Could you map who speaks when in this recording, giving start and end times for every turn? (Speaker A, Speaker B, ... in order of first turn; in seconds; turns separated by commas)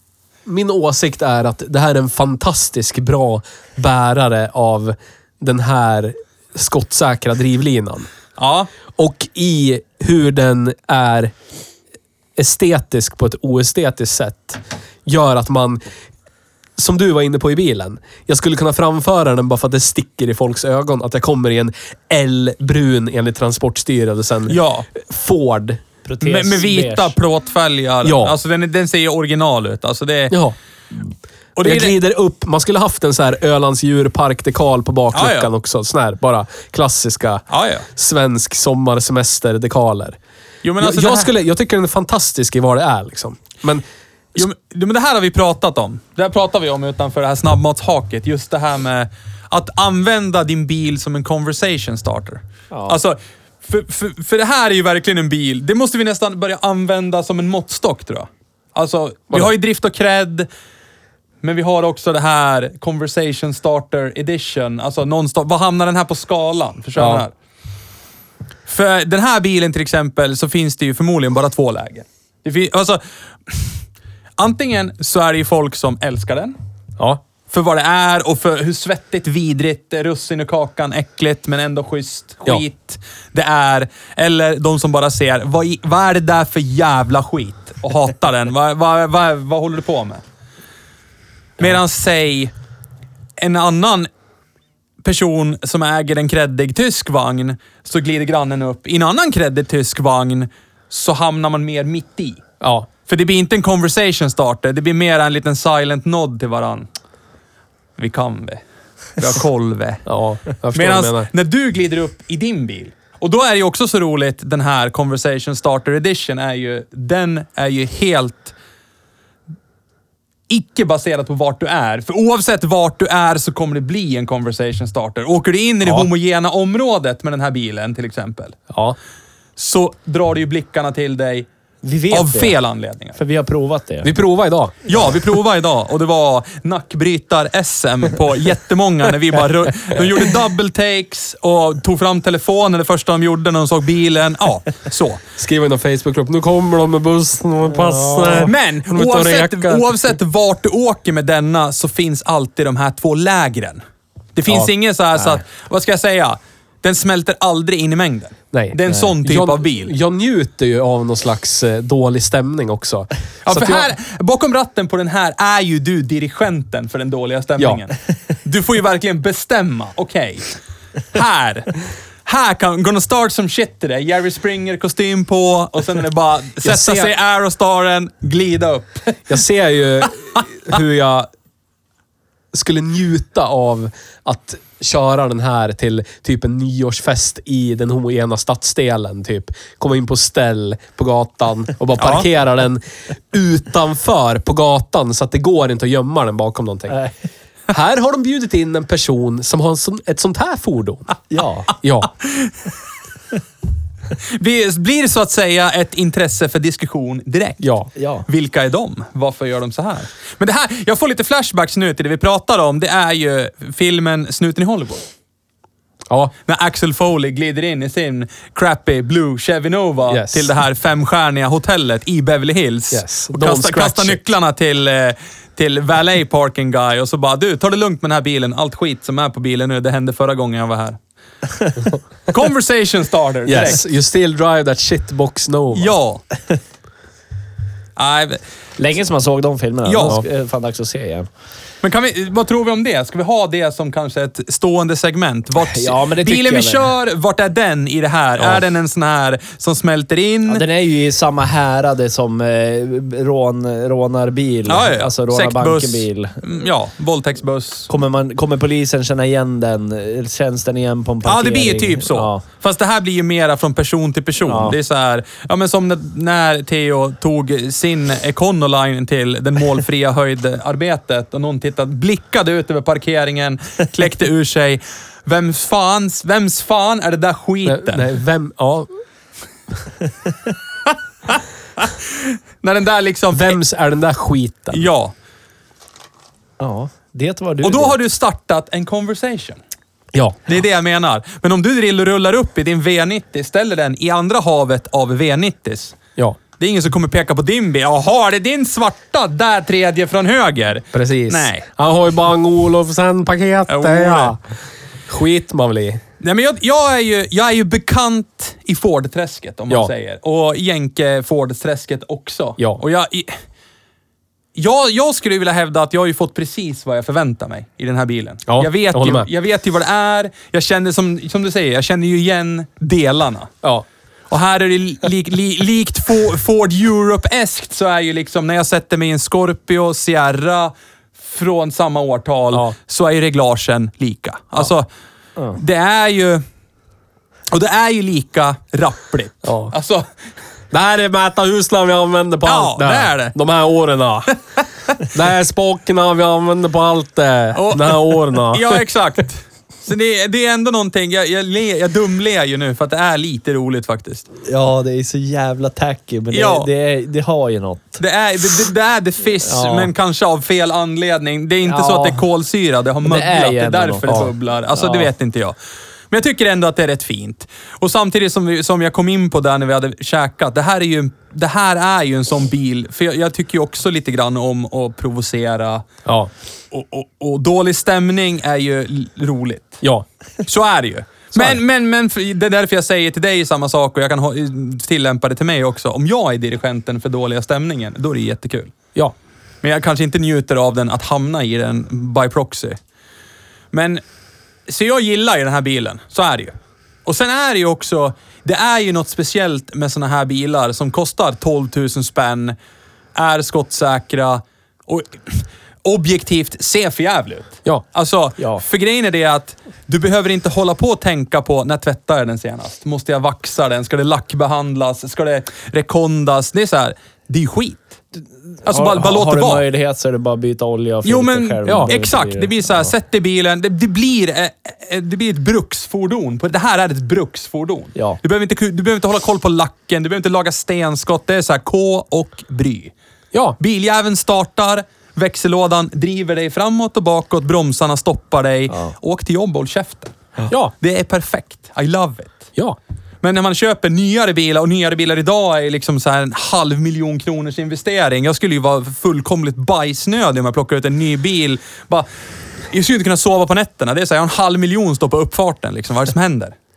Speaker A: 0.5-8.1, Speaker B: 8.4-8.7, Speaker A: 8.9-11.3, Speaker A: 12.3-15.8, Speaker A: 16.8-25.8, Speaker B: 24.5-24.9, Speaker C: 26.0-27.1, Speaker B: 26.2-30.4, Speaker A: 28.0-28.4, Speaker A: 30.3-30.6, Speaker B: 31.6-31.9, Speaker A: 31.6-40.2, Speaker B: 35.1-35.5, Speaker B: 37.5-37.8, Speaker B: 40.6-41.3, Speaker A: 40.8-44.5, Speaker B: 44.4-60.5, Speaker C: 52.7-53.0, Speaker B: 61.4-67.3, Speaker A: 67.0-67.2, Speaker B: 68.7-73.7, Speaker B: 74.4-76.5, Speaker B: 77.5-90.2, Speaker B: 91.6-92.5, Speaker B: 93.4-94.1, Speaker B: 95.0-102.4, Speaker A: 102.6-102.9, Speaker B: 103.1-106.9, Speaker B: 108.0-108.6, Speaker B: 109.2-110.0, Speaker A: 110.0-111.3, Speaker B: 110.7-118.5, Speaker B: 120.5-128.6, Speaker A: 128.7-129.0, Speaker B: 129.6-131.5, Speaker C: 131.8-132.6, Speaker B: 132.1-133.2, Speaker C: 133.2-134.1, Speaker A: 134.0-134.9, Speaker B: 134.9-145.2, Speaker A: 145.4-150.1, Speaker C: 147.7-148.5, Speaker B: 148.3-153.8, Speaker B: 154.3-159.9, Speaker A: 158.5-163.9, Speaker B: 163.4-170.5, Speaker B: 171.1-179.3, Speaker A: 176.6-177.1, Speaker A: 179.3-181.3, Speaker A: 182.5-197.0, Speaker B: 192.0-192.2, Speaker A: 197.7-201.1, Speaker C: 201.3-201.7, Speaker A: 201.7-202.1, Speaker B: 204.2-207.7, Speaker A: 207.6-207.9, Speaker C: 207.9-208.2, Speaker B: 208.3-215.1, Speaker B: 216.5-231.0, Speaker A: 220.1-220.5, Speaker A: 222.9-224.2, Speaker B: 232.3-233.8, Speaker A: 233.4-235.9, Speaker B: 235.7-236.2, Speaker B: 237.9-238.4, Speaker C: 238.8-241.3, Speaker B: 239.8-240.2, Speaker B: 241.8-250.6, Speaker C: 245.6-246.9, Speaker C: 250.5-256.4, Speaker B: 254.7-257.9, Speaker C: 257.9-262.4, Speaker B: 261.2-278.1, Speaker C: 264.4-264.8, Speaker A: 277.6-278.9, Speaker B: 281.3-283.6, Speaker A: 283.3-284.9, Speaker B: 284.7-285.1, Speaker C: 286.6-287.9, Speaker B: 287.6-289.6, Speaker A: 290.1-290.5, Speaker B: 290.5-296.0, Speaker B: 296.6-301.6, Speaker A: 300.9-304.4, Speaker B: 303.7-304.4, Speaker A: 305.1-306.0, Speaker B: 306.2-313.4, Speaker B: 314.5-323.5, Speaker A: 318.5-319.3, Speaker B: 324.3-334.9, Speaker B: 335.6-336.4, Speaker B: 337.5-340.0, Speaker A: 339.4-339.7, Speaker A: 340.7-344.4, Speaker B: 342.4-343.3, Speaker A: 345.0-348.8, Speaker B: 347.5-354.2, Speaker C: 354.4-358.0, Speaker B: 356.3-356.7, Speaker B: 358.0-365.5, Speaker C: 359.4-359.9, Speaker C: 361.6-362.2, Speaker C: 363.0-365.1, Speaker B: 366.1-375.8, Speaker B: 376.7-379.8, Speaker B: 380.4-388.7, Speaker A: 381.3-381.6, Speaker B: 389.6-392.8, Speaker B: 393.7-394.0, Speaker B: 394.7-396.5, Speaker B: 397.1-402.6, Speaker B: 403.1-418.0, Speaker B: 418.6-419.6, Speaker C: 418.6-422.9, Speaker B: 421.0-432.9, Speaker B: 433.6-440.1, Speaker B: 440.8-442.5, Speaker B: 443.2-452.1, Speaker B: 452.7-456.6